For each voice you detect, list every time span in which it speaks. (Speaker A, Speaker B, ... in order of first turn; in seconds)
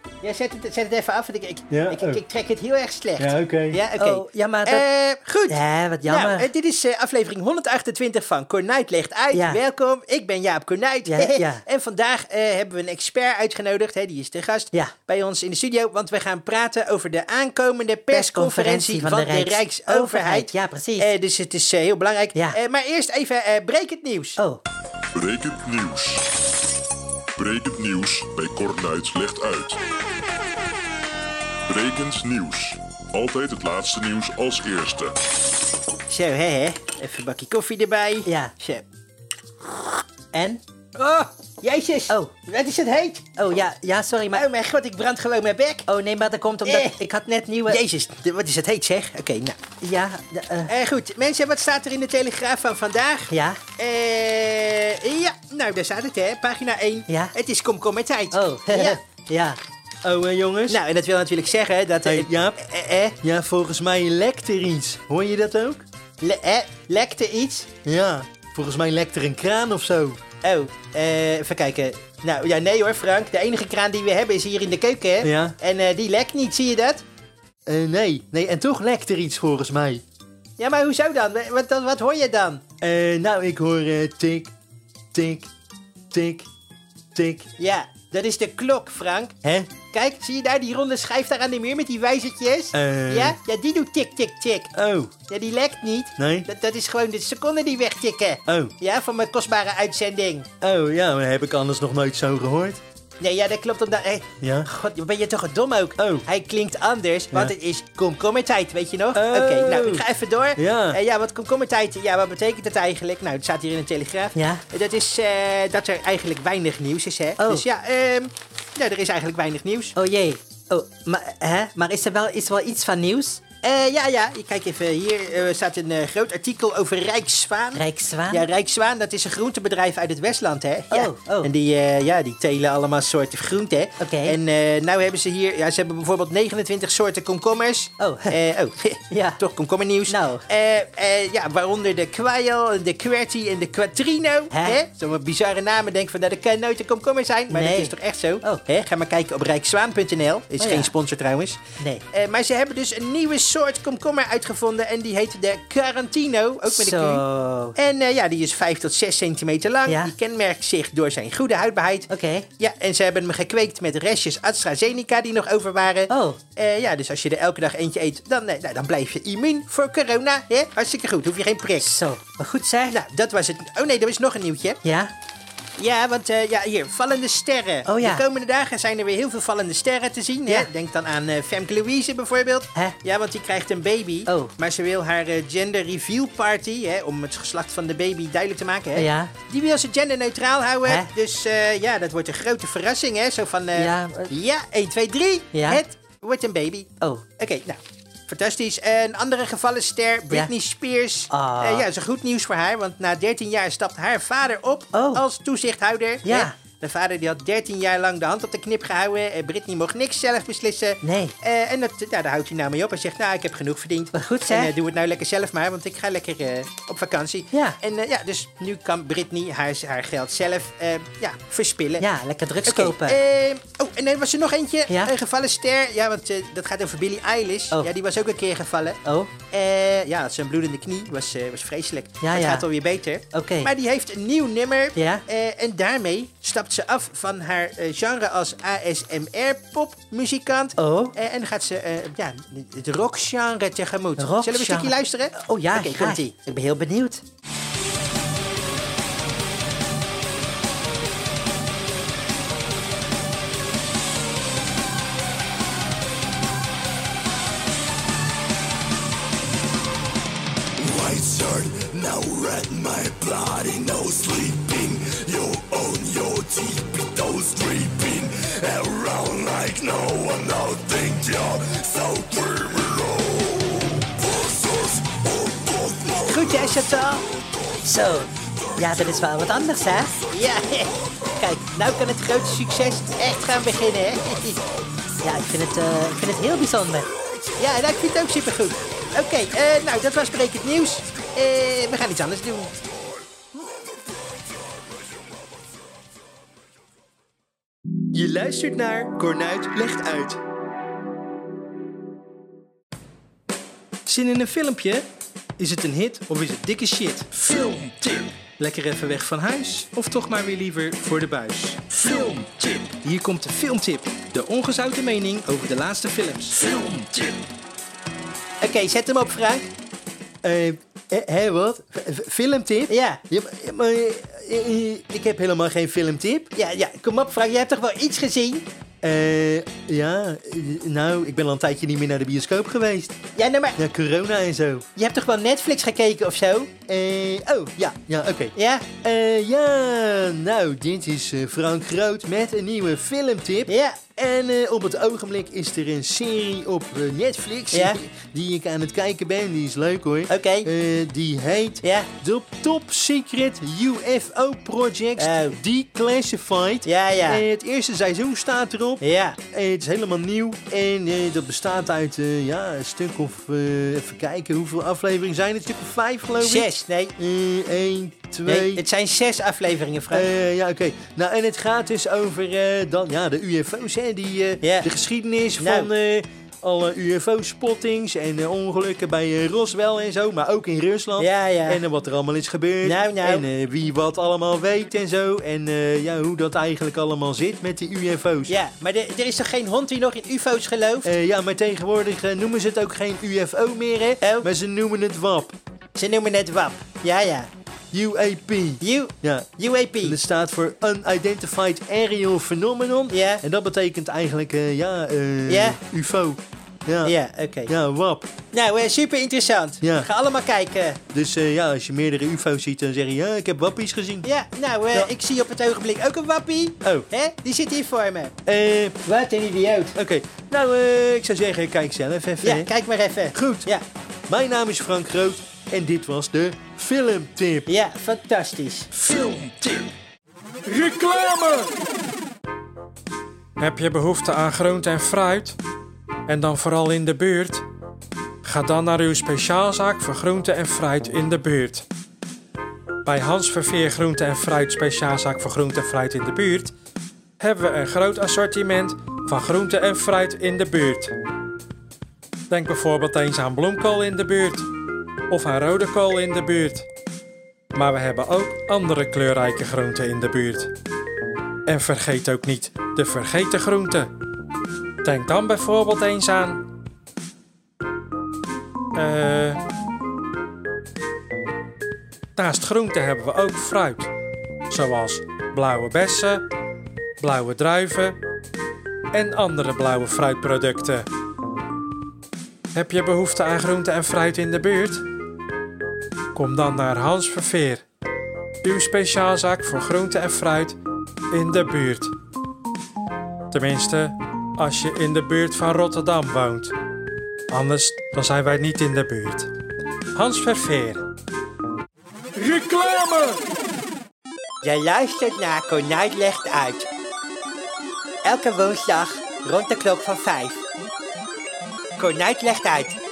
Speaker A: 0.2-24.4, 36.1-38.9, 41.0-43.2, 44.3-45.9, 46.7-46.9, 47.7-49.6, 50.7-59.0, 60.7-63.1, 66.2-67.7, 70.4-77.0, 80.6-82.7, 87.6-94.7, 95.3-100.5, 103.2-120.0, 123.6-151.6, 152.1-157.2, 157.8-171.9, 172.9-174.8, 175.8-222.0, 222.7-229.0, 229.5-246.3, 276.2-277.3, 280.3-284.6, 287.6-292.8, 298.1-300.4, 304.1-305.1, 305.6-317.4, 318.6-319.7, 322.9-323.2, 326.6-328.7, 333.4-333.8, 335.0-336.8, 338.6-338.9, 343.7-344.1, 347.7-348.0, 350.3-350.7, 351.8-352.1, 355.2-355.6, 356.9-357.4, 359.0-359.4, 366.4-367.1, 368.5-370.3, 374.6-374.9, 375.6-375.9, 381.2-381.8, 382.8-383.4, 388.5-391.1, 394.2-394.5, 396.0-397.5, 398.8-400.2, 403.1-403.4, 405.5-405.8, 407.1-407.7, 408.5-411.0, 414.2-418.4, 419.1-419.9, 422.4-423.9, 427.7-429.0, 504.6-506.9, 508.2-510.6, 512.0-513.0
Speaker B: 1.7-2.2, 3.2-3.8, 60.0-60.8, 62.1-62.6, 63.2-65.8, 67.8-70.2, 75.2-75.5, 77.7-80.0, 82.8-84.5, 85.1-85.5, 86.1-86.5, 87.2-87.5, 89.4-89.7, 92.7-93.4, 94.7-95.1, 96.2-96.5, 98.5-98.7, 100.6-102.8, 104.4-104.7, 106.0-106.3, 109.1-110.0, 110.6-111.0, 320.4-326.5, 329.0-333.2, 333.8-334.9, 336.9-368.8, 370.1-388.6, 391.0-395.6, 397.9-407.1, 407.7-408.3, 409.8-410.1, 411.1-414.3, 418.4-419.0, 419.9-422.7, 423.3-423.7, 424.3-427.7
Speaker C: 4.0-4.9, 5.5-6.5, 9.3-9.6, 11.1-11.6, 18.1-21.1, 22.3-22.6, 24.4-24.6, 38.3-38.5, 40.3-40.6, 42.1-42.3, 43.4-44.5, 45.9-47.8, 49.8-50.7, 53.3-53.6, 57.1-57.4, 58.3-59.6, 114.3-114.6, 117.4-117.7, 120.0-123.4, 127.8-128.5, 130.9-131.5, 134.0-134.4, 138.0-138.4, 139.1-139.4, 140.1-140.4, 144.5-144.8, 147.5-148.6, 150.6-150.9, 156.7-157.8, 159.9-160.1, 162.1-162.5, 166.1-166.4, 171.8-173.0, 174.8-175.1, 177.8-178.2, 184.3-184.5, 188.9-189.3, 193.8-194.3, 195.5-195.8, 201.3-201.9, 204.9-205.2, 206.2-206.6, 211.0-211.3, 214.1-214.7, 217.5-217.8, 222.0-223.2, 229.1-229.3, 232.2-232.7, 233.3-233.7, 235.0-235.2, 240.8-241.2, 244.2-247.2, 277.8-280.1, 285.2-287.1
Speaker D: 25.1-26.3, 27.4-29.8, 31.7-35.1
Speaker E: 260.8-273.7
Speaker F: 429.1-429.9, 430.6-431.7, 433.6-435.6, 436.3-437.7, 438.4-441.9, 443.1-446.7, 447.4-451.2, 452.5-454.7, 455.3-456.9, 457.7-460.7, 461.7-464.1, 465.0-466.6, 468.9-469.6, 472.4-474.1, 474.7-476.4, 477.2-478.2, 479.1-481.1, 482.7-485.0, 486.4-487.8, 488.6-490.8, 491.3-492.1, 493.5-496.7, 497.5-499.5, 500.1-501.1, 502.3-503.4